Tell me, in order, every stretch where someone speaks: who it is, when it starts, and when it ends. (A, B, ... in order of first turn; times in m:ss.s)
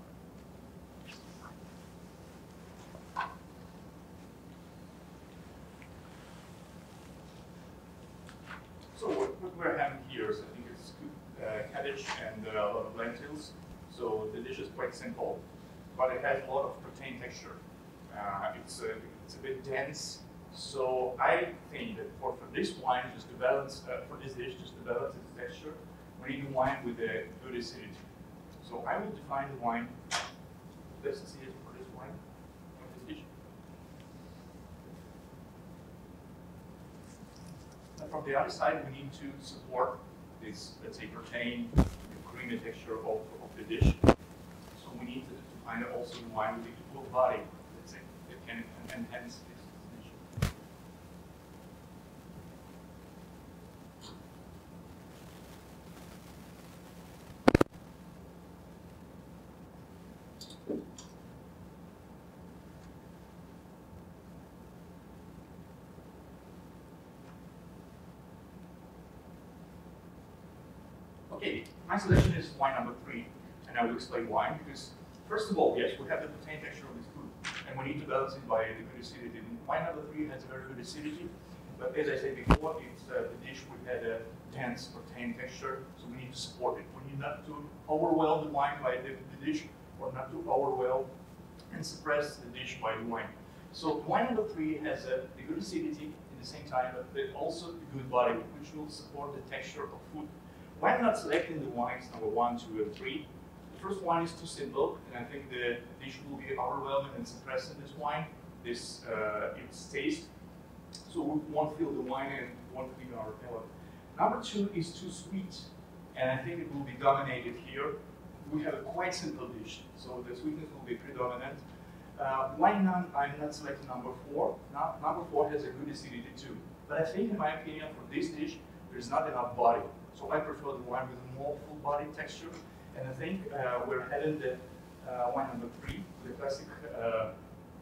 0:08.9-0:28.0 A
0:28.6-0:30.0 A
0:30.9-0:32.2 A
0:32.8-0:33.3 A
0:38.0-0:44.0 A
0:44.7-0:50.3 A
1:11.3-1:31.1 A
1:31.7-1:50.3 A
1:51.1-2:01.6 A
2:02.1-2:17.4 A